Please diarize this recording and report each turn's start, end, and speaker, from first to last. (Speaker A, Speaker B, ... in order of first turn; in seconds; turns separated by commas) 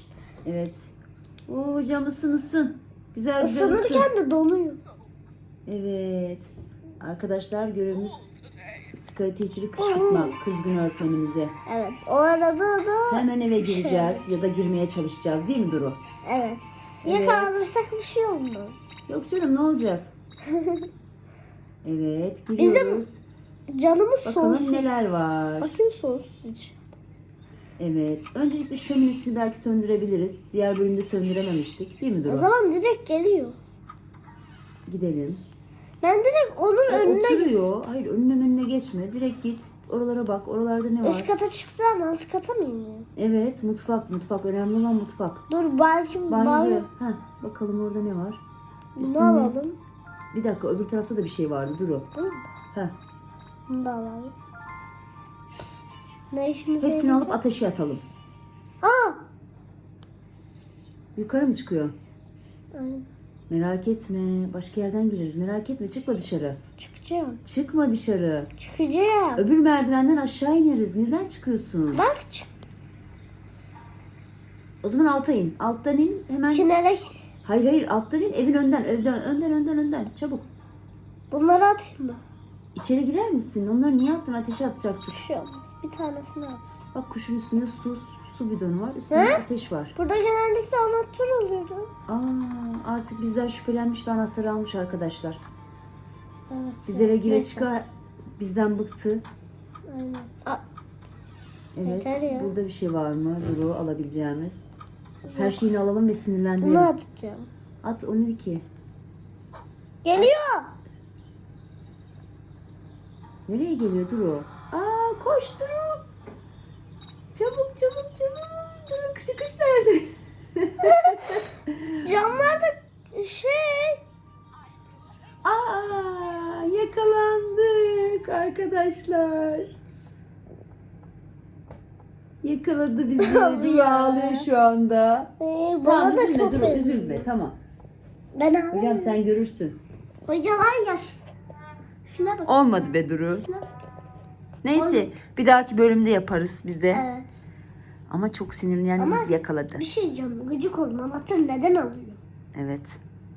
Speaker A: 0.5-0.9, Speaker A: 1.5-4.1, Speaker B: 3.4-4.8, Speaker A: 5.7-8.2, Speaker A: 8.9-11.6, Speaker B: 9.8-10.4, Speaker B: 11.7-14.3, Speaker A: 13.1-16.0, Speaker B: 16.2-18.8, Speaker A: 17.0-17.6, Speaker A: 19.1-20.1, Speaker B: 20.5-20.9, Speaker A: 21.8-23.2, Speaker B: 22.6-23.0, Speaker B: 23.7-24.9, Speaker A: 24.2-25.8, Speaker B: 25.6-26.8, Speaker A: 27.8-32.5, Speaker B: 32.3-33.6, Speaker A: 34.9-35.5, Speaker B: 36.0-37.7, Speaker A: 36.9-41.3, Speaker B: 41.0-43.1, Speaker A: 43.2-45.5, Speaker B: 45.5-46.9, Speaker A: 46.3-48.4, Speaker B: 49.0-49.8, Speaker A: 49.0-49.6, Speaker A: 50.3-52.1, Speaker B: 52.1-52.5, Speaker B: 53.7-54.3, Speaker B: 56.3-57.4, Speaker A: 56.8-58.0, Speaker B: 58.8-59.2, Speaker A: 61.2-62.0, Speaker B: 62.7-63.1, Speaker A: 63.5-66.6, Speaker B: 66.8-67.4, Speaker A: 67.4-68.5, Speaker B: 68.6-69.4, Speaker A: 69.4-72.1, Speaker B: 71.9-72.5, Speaker A: 74.8-76.7, Speaker B: 76.5-77.3, Speaker A: 77.4-80.5, Speaker B: 81.3-82.2, Speaker A: 82.8-85.2, Speaker B: 85.1-86.8, Speaker A: 86.9-89.9, Speaker B: 89.1-89.4, Speaker B: 90.0-91.9, Speaker A: 92.1-95.4, Speaker B: 96.5-97.7, Speaker A: 96.9-99.2, Speaker B: 99.9-100.6, Speaker A: 101.8-104.7, Speaker B: 101.8-102.5, Speaker B: 105.3-105.6, Speaker A: 105.3-106.9, Speaker B: 106.6-107.5, Speaker A: 107.8-108.7, Speaker B: 110.0-110.8, Speaker A: 113.5-116.0, Speaker A: 117.3-122.1, Speaker B: 120.9-121.2, Speaker B: 122.0-124.0, Speaker A: 125.4-129.7, Speaker A: 132.4-137.6, Speaker B: 133.2-134.5, Speaker B: 135.4-137.3, Speaker B: 138.3-139.2, Speaker A: 138.7-139.8, Speaker B: 140.3-141.2, Speaker B: 142.1-142.6, Speaker A: 142.5-143.5, Speaker A: 144.6-147.1, Speaker B: 144.8-145.1, Speaker B: 146.9-147.3, Speaker A: 148.1-149.8, Speaker B: 149.0-152.2, Speaker A: 152.6-153.0